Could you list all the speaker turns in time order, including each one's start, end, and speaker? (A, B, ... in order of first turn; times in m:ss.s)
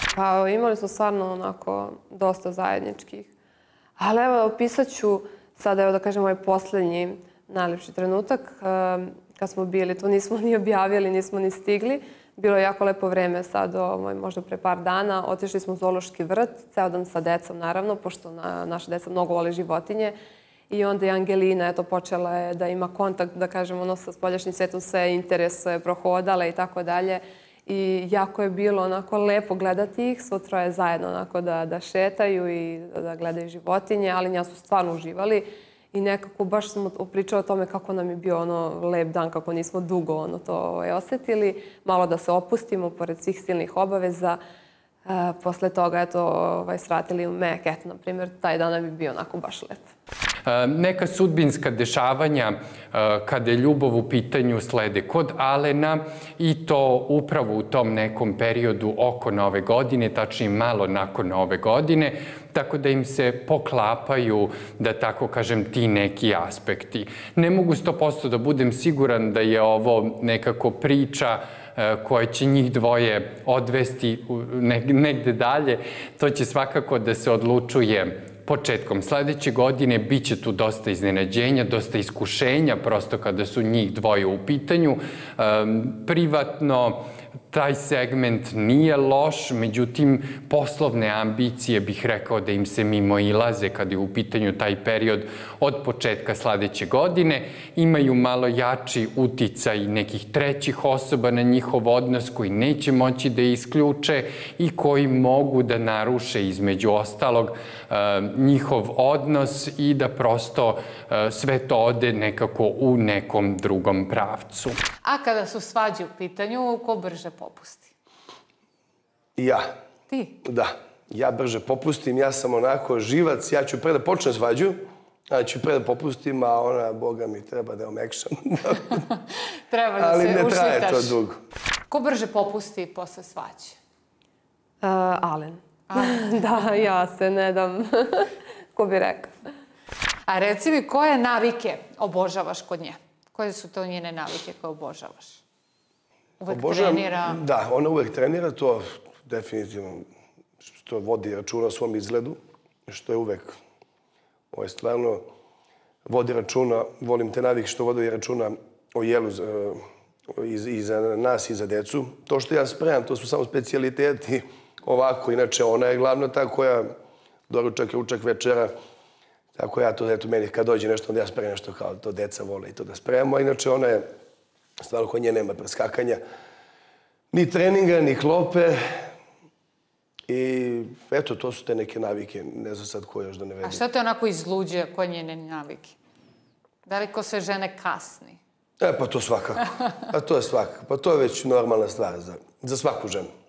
0:00.1-0:03.3 A
0:04.0-0:20.2 A
0:20.7-0:44.4 A
0:45.1-0:49.9 A
0:50.5-1:54.8 B
1:55.0-1:57.9 C
1:59.4-1:59.7 D
2:00.1-2:00.4 C
2:00.4-2:09.0 D
2:09.7-2:11.2 C
2:10.0-2:11.4 D
2:11.9-2:13.8 C
2:14.8-2:19.3 A
2:15.9-2:16.5 C
2:20.3-2:25.4 C
2:26.4-2:27.4 C
2:26.5-2:30.1 D
2:30.6-2:33.6 D
2:34.5-2:35.3 D
2:36.1-2:46.9 D
2:47.5-2:48.7 D
2:49.6-2:54.1 D
2:54.8-2:56.2 D
2:57.3-2:59.1 D
3:00.3-3:03.8 D
3:03.6-3:06.0 C
3:06.9-3:08.4 C
3:08.8-3:13.3 D